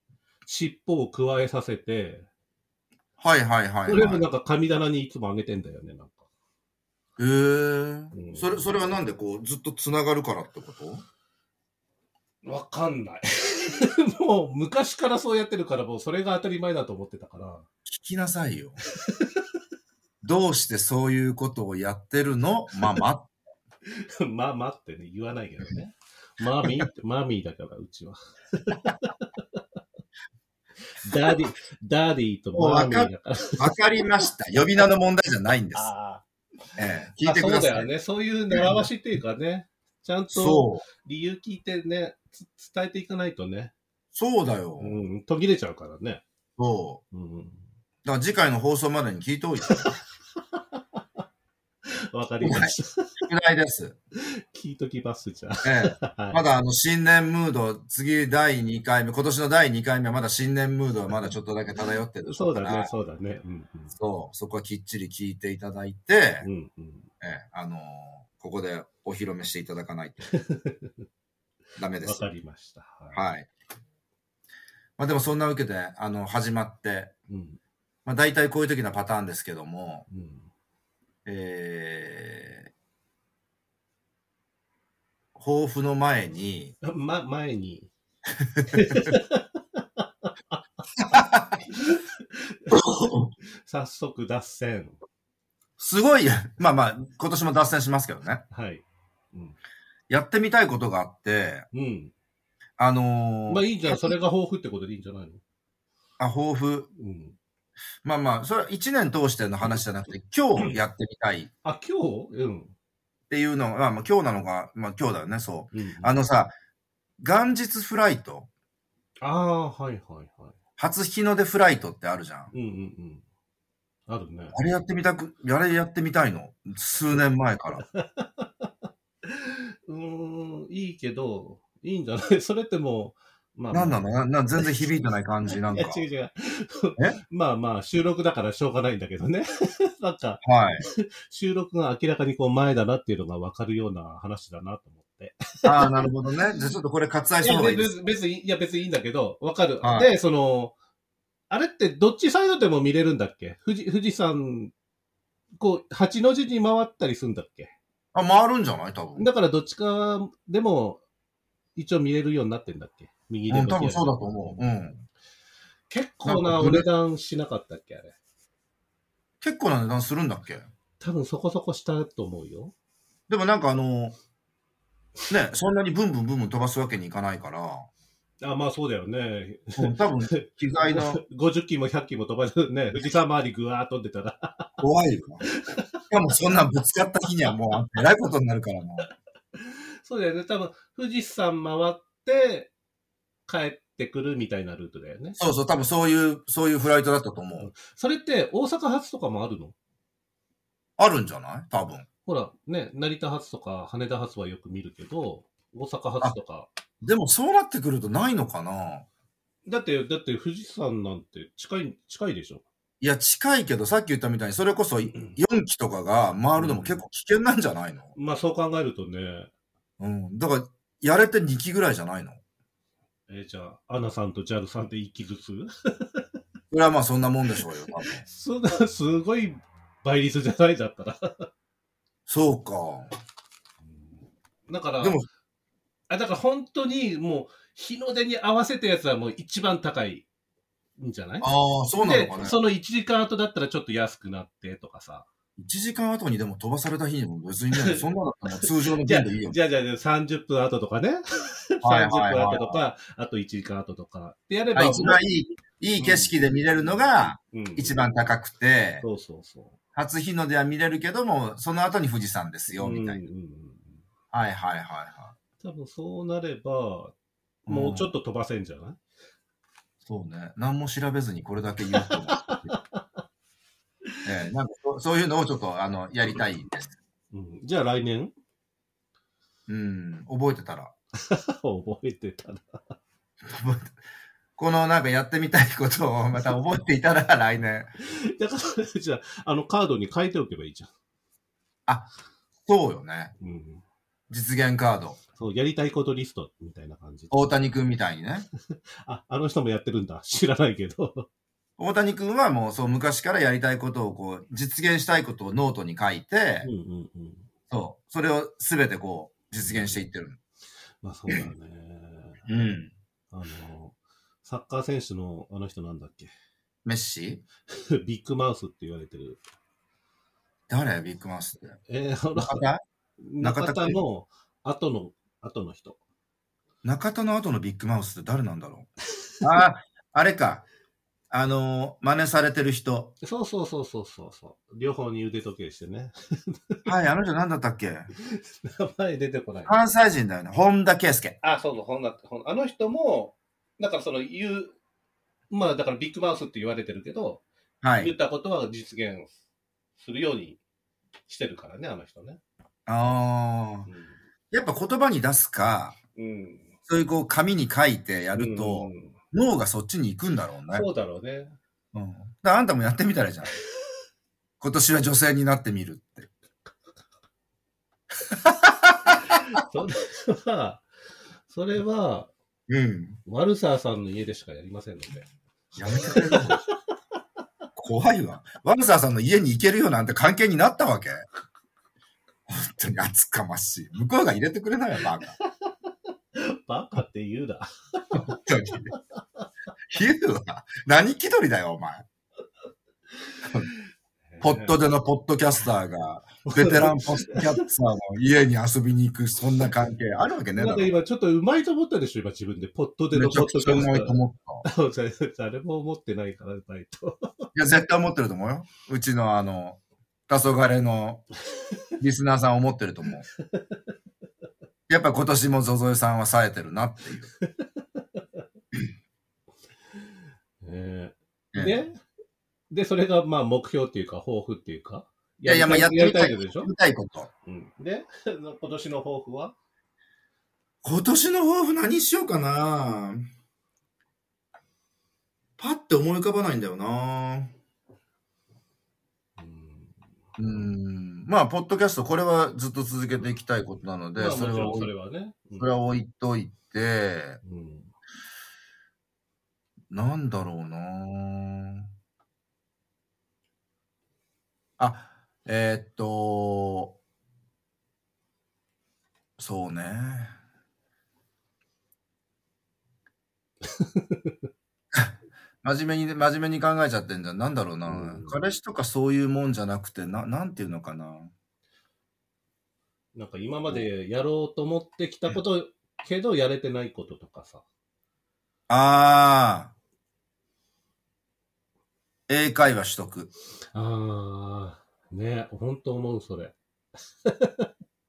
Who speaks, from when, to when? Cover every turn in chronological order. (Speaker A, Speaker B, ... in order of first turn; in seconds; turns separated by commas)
Speaker A: 0.5-2.3, Speaker B: 3.2-4.2, Speaker A: 3.9-6.2, Speaker B: 7.2-11.0, Speaker A: 8.1-9.0, Speaker A: 12.4-17.7, Speaker B: 17.9-18.8, Speaker B: 20.2-23.3, Speaker A: 23.9-29.6, Speaker A: 30.9-33.8, Speaker B: 32.5-35.9, Speaker A: 35.7-36.2, Speaker B: 36.8-37.9, Speaker A: 37.2-43.7, Speaker B: 38.5-38.8, Speaker B: 40.3-40.9, Speaker B: 44.1-45.0, Speaker A: 44.8-46.2, Speaker B: 46.6-47.0, Speaker A: 47.1-47.6, Speaker B: 48.0-50.0, Speaker A: 50.6-51.0, Speaker A: 51.9-53.2, Speaker B: 52.4-54.0, Speaker A: 54.2-56.4, Speaker B: 55.6-62.9, Speaker A: 62.2-64.0, Speaker B: 64.0-66.5, Speaker A: 66.4-67.1, Speaker B: 67.2-70.3, Speaker A: 70.3-70.9, Speaker B: 71.8-72.2, Speaker A: 72.0-73.2, Speaker B: 73.1-73.5, Speaker B: 75.0-77.1, Speaker A: 77.3-77.6, Speaker B: 78.1-80.1, Speaker A: 80.1-80.5, Speaker B: 81.3-82.7, Speaker B: 85.4-86.8, Speaker A: 86.8-87.9, Speaker B: 88.5-89.1, Speaker A: 88.7-90.6, Speaker B: 91.1-91.6, Speaker A: 91.8-95.0, Speaker B: 92.7-93.3, Speaker B: 95.8-98.4, Speaker A: 98.5-99.6, Speaker B: 100.1-101.7, Speaker A: 101.7-102.1, Speaker B: 102.8-104.1, Speaker A: 103.5-105.4, Speaker B: 106.2-106.9, Speaker A: 107.0-107.4, Speaker B: 108.0-111.5, Speaker A: 111.6-112.7, Speaker B: 113.3-116.5, Speaker A: 115.7-116.2, Speaker B: 117.2-118.5, Speaker A: 119.2-120.5, Speaker B: 120.8-122.5, Speaker A: 122.5-123.2, Speaker A: 124.1-124.6, Speaker B: 124.5-127.8, Speaker A: 127.9-128.7, Speaker A: 129.3-134.7, Speaker B: 133.7-136.0, Speaker A: 135.5-146.1, Speaker B: 140.4-140.8, Speaker B: 145.6-148.2, Speaker A: 147.4-150.7, Speaker B: 149.8-150.1, Speaker A: 151.5-154.7, Speaker A: 155.6-157.7, Speaker B: 158.1-159.3, Speaker A: 159.2-161.0, Speaker A: 161.8-164.7, Speaker B: 163.5-165.0, Speaker A: 165.9-168.2, Speaker B: 166.2-166.9, Speaker B: 169.4-170.7, Speaker A: 171.0-172.7, Speaker B: 173.3-174.2, Speaker B: 175.3-177.9, Speaker A: 178.4-184.8, Speaker B: 179.8-181.2, Speaker B: 184.8-185.4, Speaker A: 185.5-186.0, Speaker B: 186.1-189.1, Speaker A: 189.6-192.7, Speaker A: 193.5-195.4, Speaker B: 195.4-197.7, Speaker A: 197.6-199.8, Speaker B: 201.0-202.1, Speaker A: 202.2-206.7, Speaker B: 207.0-209.1, Speaker A: 209.7-212.6, Speaker B: 213.0-218.1, Speaker A: 216.6-217.0, Speaker A: 218.2-219.5, Speaker B: 220.0-222.4, Speaker A: 223.3-226.2, Speaker B: 226.7-228.2, Speaker A: 228.2-231.5, Speaker B: 232.3-233.1, Speaker A: 233.8-235.2, Speaker B: 235.0-235.3, Speaker A: 236.1-240.3, Speaker A: 241.0-245.3, Speaker B: 241.4-242.6, Speaker B: 245.6-249.6, Speaker A: 247.7-248.0, Speaker A: 248.6-255.2, Speaker B: 251.8-252.8, Speaker B: 254.8-259.0, Speaker A: 256.0-258.0, Speaker A: 259.0-259.8, Speaker B: 259.9-263.2, Speaker A: 262.7-264.0, Speaker B: 264.3-265.3, Speaker A: 265.6-267.1, Speaker A: 267.7-269.0, Speaker B: 267.7-268.1, Speaker B: 270.0-272.7, Speaker A: 271.9-273.0, Speaker B: 274.2-276.9, Speaker A: 277.3-278.3, Speaker B: 279.7-280.9, Speaker A: 281.1-282.9, Speaker B: 283.4-284.0, Speaker B: 284.6-287.9, Speaker A: 288.0-290.9, Speaker B: 292.6-293.3, Speaker A: 293.4-293.8, Speaker B: 294.3-295.2, Speaker A: 295.4-297.5, Speaker B: 297.3-298.5, Speaker A: 298.7-301.3, Speaker B: 301.8-306.7, Speaker A: 306.6-307.5, Speaker B: 307.7-310.4, Speaker A: 309.6-310.1, Speaker A: 311.0-312.4, Speaker B: 312.5-312.9, Speaker A: 313.3-316.3, Speaker B: 316.9-317.4, Speaker A: 317.7-319.4, Speaker B: 320.7-321.8, Speaker A: 321.9-322.6, Speaker B: 322.4-322.8, Speaker A: 323.2-326.0, Speaker B: 323.4-324.0, Speaker B: 326.8-328.9, Speaker B: 329.4-330.6, Speaker B: 331.3-333.1, Speaker A: 333.2-336.8, Speaker B: 336.9-338.1, Speaker A: 338.2-339.9, Speaker B: 339.7-341.4, Speaker A: 341.4-344.8, Speaker A: 345.5-347.4, Speaker B: 347.8-348.1, Speaker A: 348.0-349.3, Speaker A: 350.0-350.6, Speaker A: 351.3-352.4, Speaker B: 352.9-353.9, Speaker A: 353.9-354.2, Speaker B: 354.5-356.0, Speaker A: 356.2-356.7, Speaker B: 356.9-360.9, Speaker A: 358.4-359.2, Speaker A: 360.7-361.6, Speaker B: 361.9-363.5, Speaker B: 364.6-366.3, Speaker B: 368.3-369.2, Speaker A: 369.2-370.9, Speaker A: 371.5-372.3, Speaker B: 372.7-373.2, Speaker A: 373.3-375.3, Speaker B: 375.8-376.6, Speaker A: 375.9-376.6, Speaker B: 377.8-381.3, Speaker B: 382.5-385.4, Speaker A: 386.4-389.0, Speaker B: 388.1-388.9, Speaker B: 389.9-392.1, Speaker A: 394.3-394.8, Speaker B: 394.4-400.9, Speaker A: 396.4-397.6, Speaker A: 400.6-407.5, Speaker B: 403.1-404.6, Speaker B: 407.6-411.3, Speaker B: 412.0-413.3, Speaker B: 414.9-417.3, Speaker A: 417.6-418.2, Speaker A: 420.6-422.0, Speaker A: 422.7-426.7, Speaker B: 425.4-427.3, Speaker A: 427.5-429.6, Speaker B: 430.8-433.3, Speaker B: 435.6-437.5, Speaker A: 439.4-440.0, Speaker B: 440.4-444.9, Speaker A: 444.1-445.7, Speaker B: 445.6-447.4, Speaker A: 447.4-447.9, Speaker B: 449.9-451.9, Speaker B: 454.8-457.0, Speaker B: 459.4-460.4, Speaker A: 463.6-464.4, Speaker B: 464.9-471.3, Speaker A: 467.9-468.4, Speaker A: 473.1-477.6, Speaker B: 478.7-479.7, Speaker B: 482.3-483.3, Speaker A: 483.7-486.6, Speaker A: 487.2-487.7